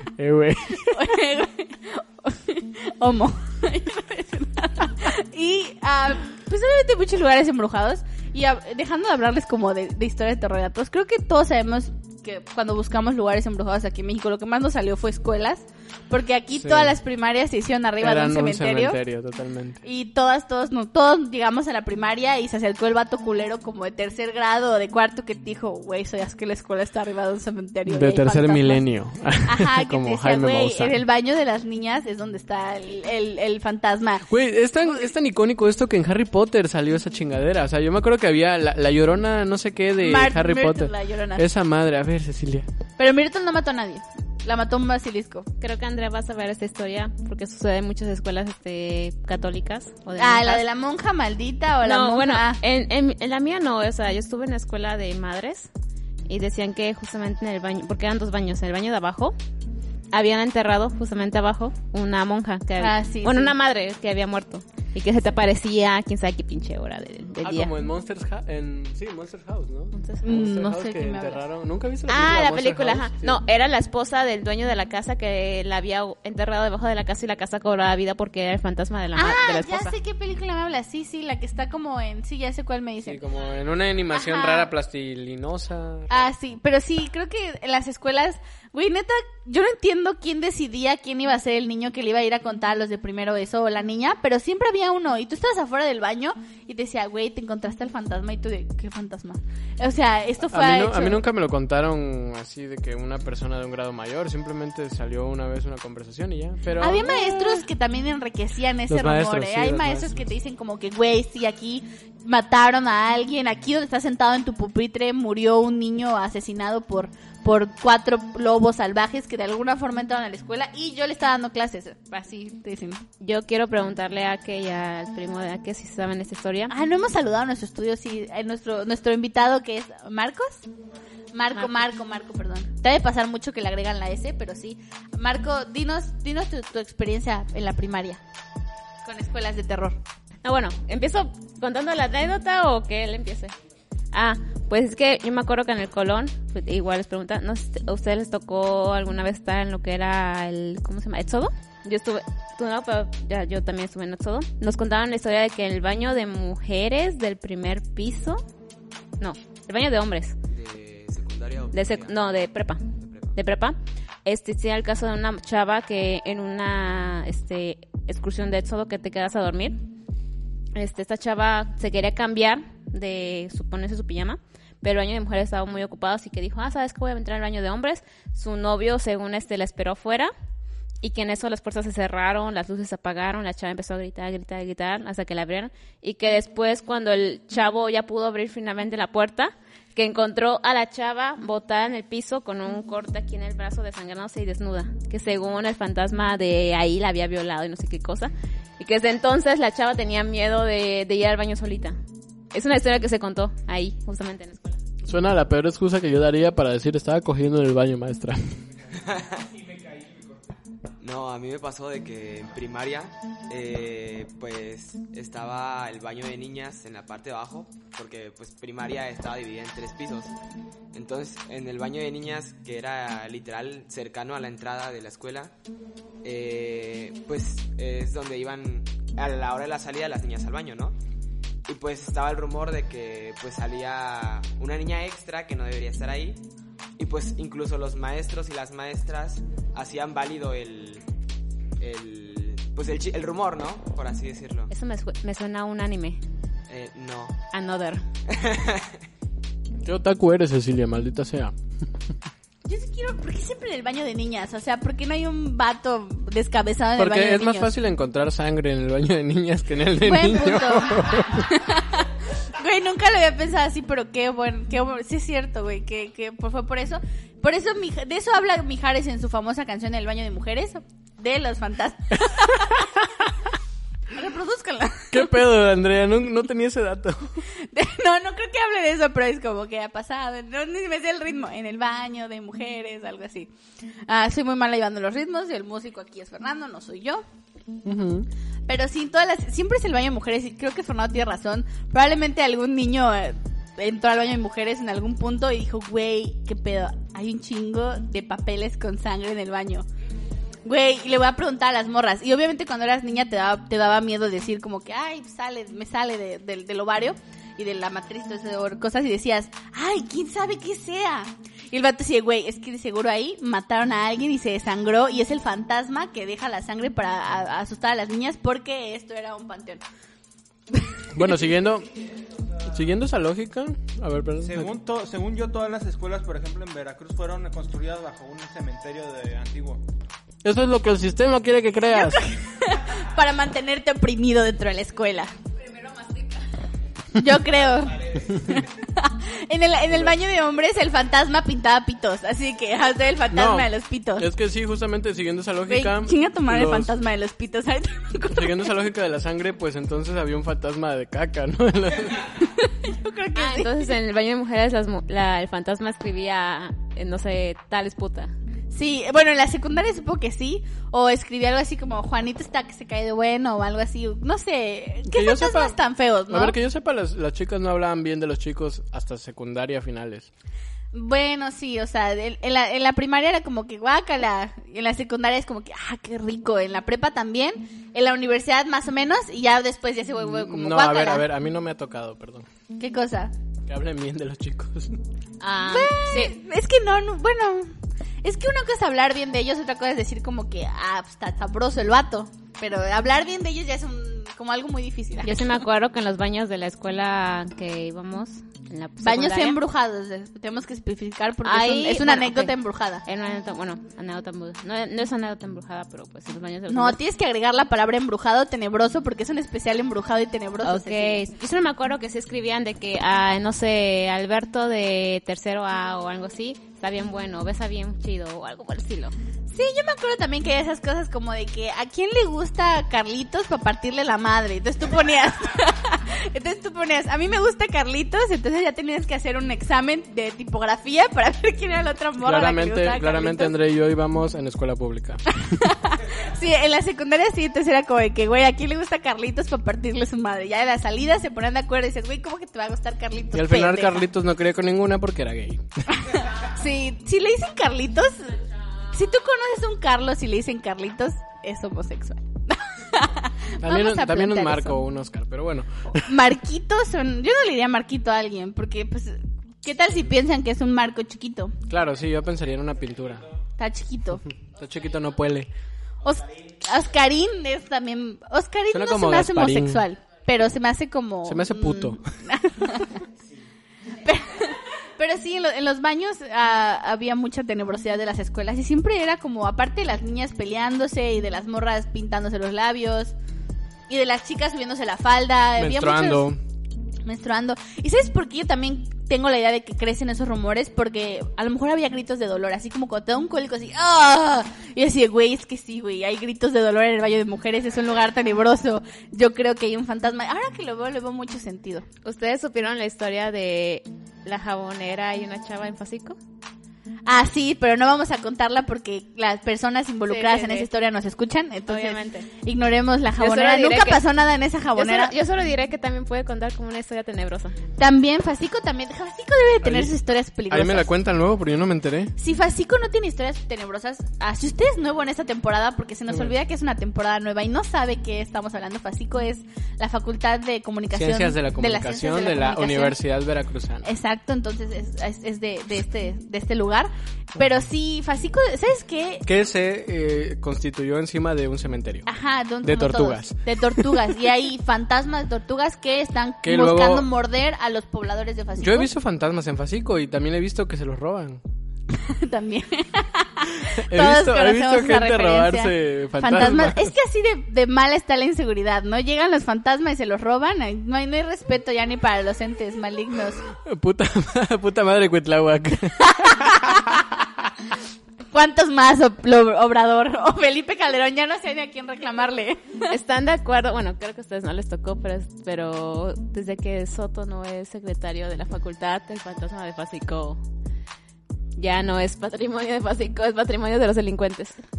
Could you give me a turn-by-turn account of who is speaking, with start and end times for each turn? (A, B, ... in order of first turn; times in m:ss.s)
0:00.2-0:00.9 A
0:00.7-0:19.0 B
0:16.6-0:17.0 A
0:18.0-0:19.8 A
0:19.8-0:28.8 B
0:27.9-0:31.0 A
0:29.4-0:34.3 B
0:34.3-0:42.7 A
0:40.0-0:41.4 B
0:43.0-0:45.5 B
0:45.6-0:50.6 C
0:50.2-0:52.6 B
0:51.8-0:55.7 C
0:56.3-0:59.4 C
1:00.1-1:07.7 C
1:02.8-1:03.6 B
1:07.4-1:13.4 A
1:09.9-1:10.4 C
1:10.2-1:11.4 B
1:12.1-1:19.9 C
1:19.2-1:23.2 B
1:23.0-1:26.1 A
1:24.1-1:24.7 B
1:26.1-1:41.2 B
1:40.5-1:47.3 A
1:46.8-2:03.0 B
1:48.9-1:50.2 A
2:03.2-2:06.7 C
2:06.7-2:10.7 B
2:11.3-2:18.2 B
2:19.0-2:20.0 B
2:20.4-2:23.6 C
2:24.1-2:38.4 C
2:39.2-2:40.4 C
2:40.5-2:42.4 D
2:41.7-2:49.8 C
2:43.0-2:43.4 D
2:50.8-3:00.3 C
3:01.0-3:22.0 C
3:22.5-3:24.8 C
3:25.0-3:28.6 A
3:29.0-3:29.5 D
3:31.0-3:40.4 D
3:40.9-3:45.5 D
3:46.2-3:51.0 D
3:51.7-3:56.4 D
3:57.0-4:01.0 D
4:01.8-4:04.7 D
4:04.7-4:06.2 C
4:06.7-4:07.4 D
4:07.5-4:08.0 C
4:08.3-4:09.0 D
4:09.8-4:11.6 A
4:12.6-4:17.8 B
4:17.0-4:21.5 A
4:20.0-4:33.3 B
4:34.1-4:35.4 B
4:35.1-4:37.4 A
4:37.5-4:43.5 B
4:44.1-4:47.2 B
4:47.8-4:48.3 A
4:48.7-4:59.9 B
5:00.6-5:19.8 B
5:21.1-5:21.9 A
5:22.7-5:24.7 A
5:24.4-5:29.8 E
5:30.4-5:32.2 A
5:31.9-5:35.3 B
5:37.2-5:44.3 B
5:43.3-5:46.9 A
5:45.7-5:48.8 B
5:48.3-5:52.3 A
5:52.6-5:53.9 B
5:53.4-5:58.3 C
5:58.7-6:06.6 B
6:05.1-6:05.8 A
6:06.3-6:10.3 A
6:10.9-6:21.3 B
6:20.2-6:22.5 A
6:22.8-6:23.3 B
6:23.7-6:25.0 A
6:25.4-6:26.4 C
6:25.6-6:35.6 B
6:35.2-6:39.6 C
6:39.0-6:43.0 B
6:41.4-6:42.5 C
6:43.0-6:47.0 C
6:46.7-6:51.2 B
6:50.6-6:59.1 C
6:59.5-7:13.6 B
7:12.2-7:15.2 A
7:15.4-7:24.1 B
7:23.3-7:26.0 A
7:26.0-7:34.8 B
7:33.6-7:36.1 A
7:35.9-7:41.6 B
7:41.7-7:43.3 A
7:43.6-7:44.2 B
7:44.5-7:45.5 A
7:46.0-7:53.0 B
7:48.7-7:49.8 A
7:51.3-7:52.0 A
7:54.0-8:03.2 B
8:03.9-8:06.3 B
8:05.6-8:06.4 A
8:07.0-8:21.9 B
8:22.0-8:26.2 C
8:27.1-8:35.2 B
8:30.1-8:30.7 C
8:31.7-8:32.3 C
8:33.2-8:34.0 C
8:34.8-8:37.6 C
8:37.8-8:40.9 B
8:39.6-8:39.9 A
8:40.5-8:42.1 A
8:42.2-8:53.0 B
8:50.9-8:53.9 A
8:53.8-8:59.2 B
8:59.2-9:02.1 A
9:02.1-9:08.9 B
9:02.6-9:04.0 A
9:06.4-9:07.1 A
9:08.6-9:11.4 A
9:11.9-9:23.4 B
9:13.6-9:16.9 A
9:23.6-9:26.8 A
9:26.0-9:27.0 B
9:28.3-9:33.0 B
9:32.9-9:40.4 C
9:41.6-9:44.6 C